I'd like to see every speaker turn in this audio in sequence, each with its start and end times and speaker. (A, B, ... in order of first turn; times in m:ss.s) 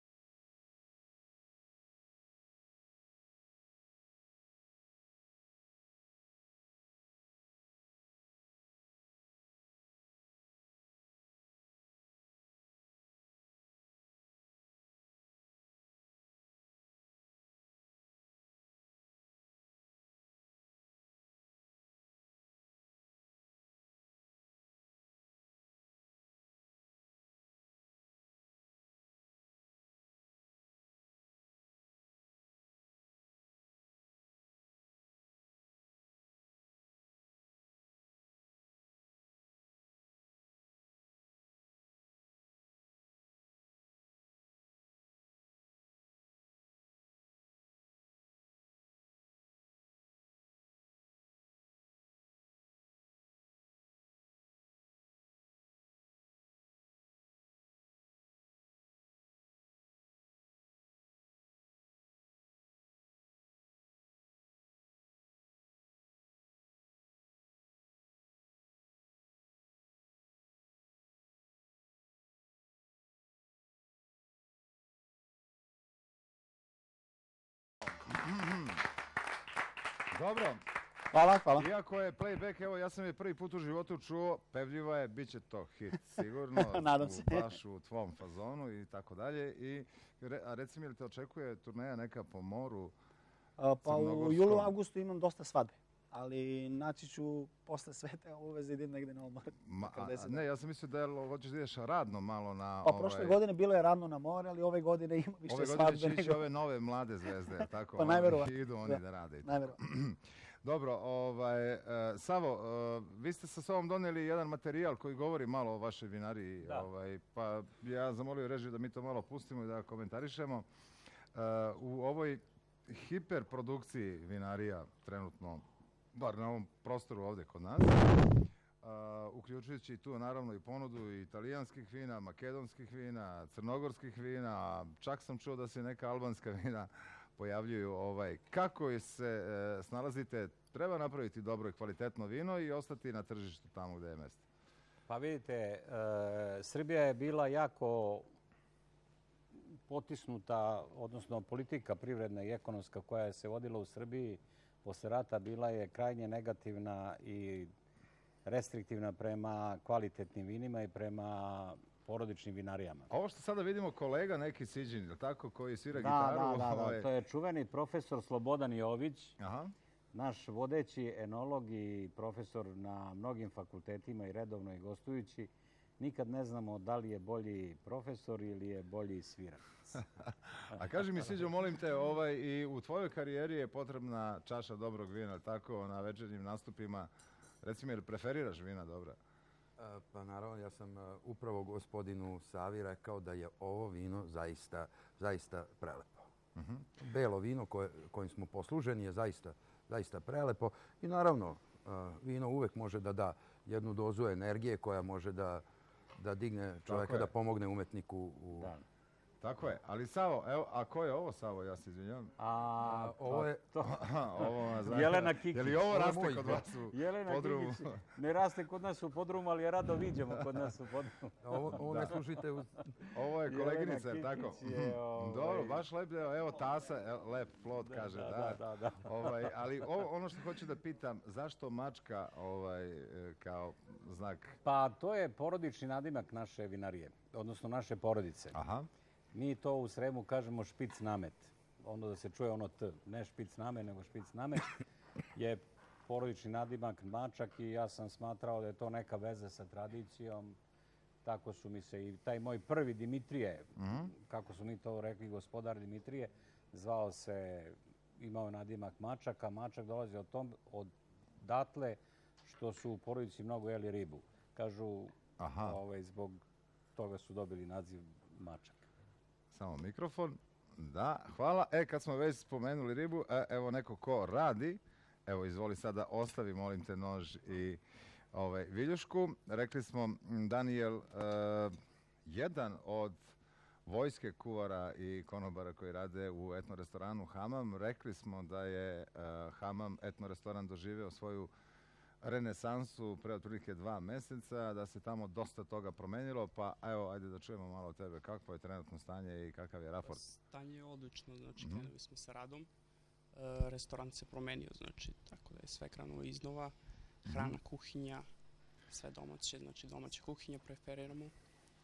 1:18.1-1:18.8 A
1:20.1-1:20.6 A
1:21.1-1:21.7 B
1:21.6-1:32.9 A
1:26.6-1:27.5 B
1:33.6-1:40.4 B
1:33.8-1:34.7 A
1:39.6-1:43.4 A
1:42.8-1:46.4 B
1:45.5-2:00.7 A
1:48.0-1:49.8 B
2:01.3-2:08.2 A
2:08.8-2:24.4 A
2:25.1-2:28.3 C
2:29.9-2:37.7 C
2:38.5-2:43.1 C
2:43.1-2:47.1 A
2:45.9-2:49.4 C
2:49.4-2:49.7 A
2:50.1-3:00.0 C
3:00.7-3:01.2 C
3:00.7-3:07.1 A
3:07.6-3:09.2 A
3:09.8-3:16.3 D
3:16.6-3:16.9 A
3:17.0-3:25.6 D
3:26.2-3:28.7 D
3:26.9-3:27.3 A
3:28.6-3:28.8 C
3:29.4-3:32.3 A
3:32.4-3:36.0 C
3:32.8-3:33.6 D
3:33.8-3:38.0 A
3:35.9-3:36.6 D
3:36.9-3:41.4 C
3:41.4-3:42.7 D
3:41.9-3:42.2 C
3:43.1-3:54.6 A
3:43.5-3:45.8 C
3:47.8-3:49.3 C
3:54.6-3:58.6 C
3:58.5-3:58.9 A
3:59.3-4:04.7 C
4:05.4-4:10.6 C
4:11.2-4:26.4 C
4:13.8-4:14.1 A
4:25.4-4:25.8 A
4:27.0-4:28.9 C
4:29.5-4:37.8 A
4:38.3-4:41.8 A
4:42.3-4:43.3 A
4:43.9-4:51.5 A
4:52.2-5:00.2 A
5:00.0-5:02.7 E
5:01.6-5:01.9 A
5:03.3-5:08.3 E
5:07.3-5:07.6 A
5:08.9-5:11.3 E